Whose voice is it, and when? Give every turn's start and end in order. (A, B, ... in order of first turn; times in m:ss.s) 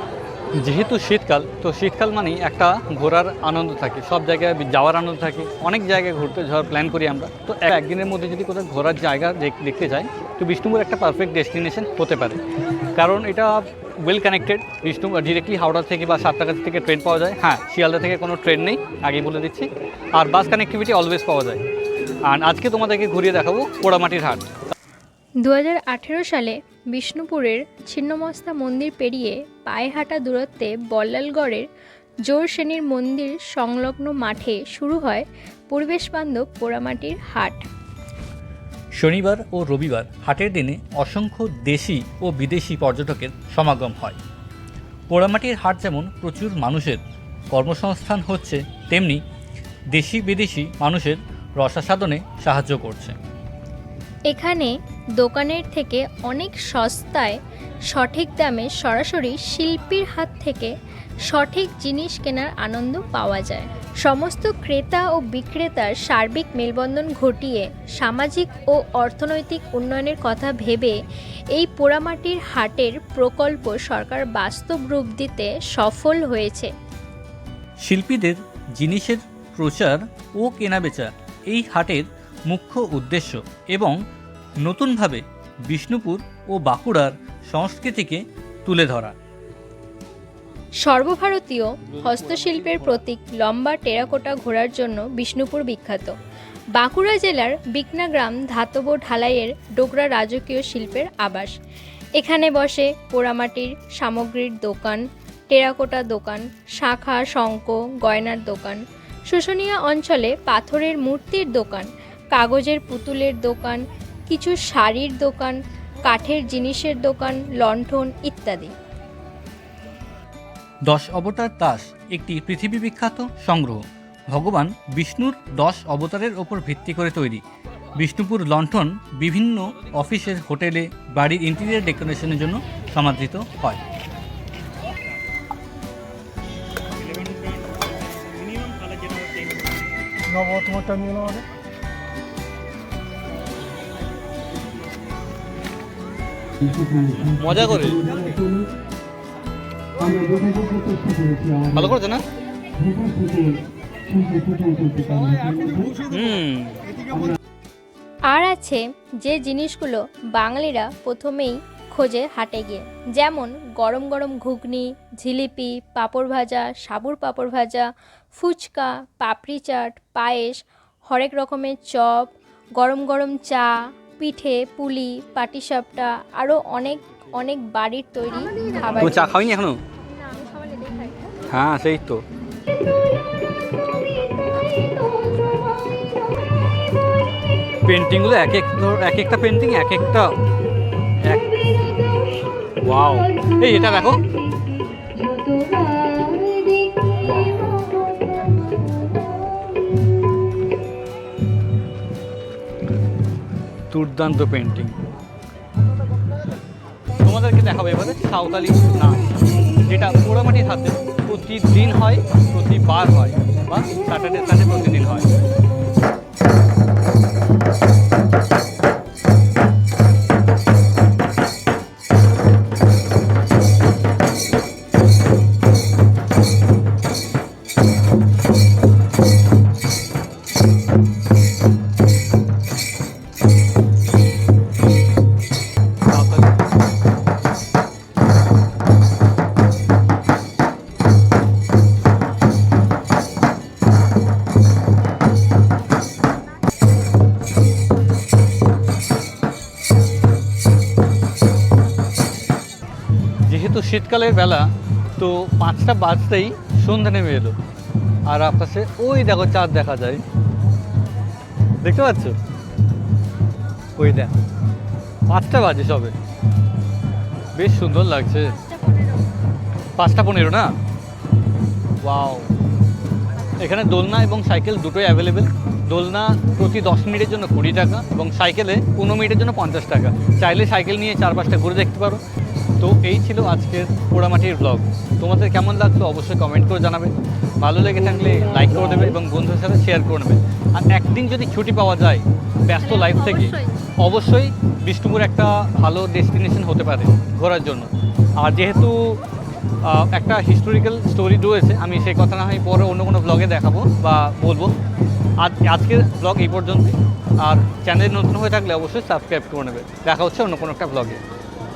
0:00.6-0:12.4 A
0:13.0-0:21.6 A
0:22.3-0:24.5 A
0:25.4-0:31.7 B
0:32.3-0:37.6 B
0:38.9-0:44.2 A
0:45.1-0:47.0 A
0:47.5-0:49.2 A
0:49.9-0:53.2 A
0:54.3-0:57.4 B
0:57.9-1:00.7 B
1:01.3-1:10.9 B
1:11.5-1:16.7 B
1:17.8-1:24.0 A
1:24.6-1:29.2 A
1:30.8-1:36.2 B
1:31.9-1:33.0 A
1:36.8-1:41.5 B
1:42.2-1:58.7 B
2:00.9-2:07.4 A
2:08.0-2:13.8 A
2:17.1-2:17.7 A
2:17.1-2:19.5 C
2:18.5-2:19.2 A
2:20.3-2:21.4 C
2:26.6-2:28.7 C
2:27.3-2:28.1 A
2:30.0-2:31.8 C
2:31.7-2:32.2 A
2:32.8-2:36.0 C
2:36.1-2:36.9 A
2:38.3-2:59.4 B
2:59.0-2:59.8 A
3:00.5-3:01.1 B
3:01.5-3:02.2 A
3:07.8-3:10.4 A
3:11.2-3:11.7 A
3:12.8-3:14.3 A
3:15.2-3:17.6 B
3:23.9-3:25.0 A
3:27.2-3:29.3 A
3:29.8-3:35.3 A
3:56.1-3:56.6 A
4:13.5-4:17.6 A
4:18.3-4:20.2 A
4:21.8-4:22.4 A
4:24.0-4:24.3 A
4:25.3-4:26.2 A
4:27.6-4:28.6 A
4:28.7-4:29.0 B
4:30.0-4:30.7 A
4:32.0-4:32.5 A
4:33.6-4:42.2 A
4:42.8-4:57.9 A
4:52.8-4:53.8 B
4:58.4-4:59.0 A
4:59.8-5:04.7 A
5:05.4-5:11.2 A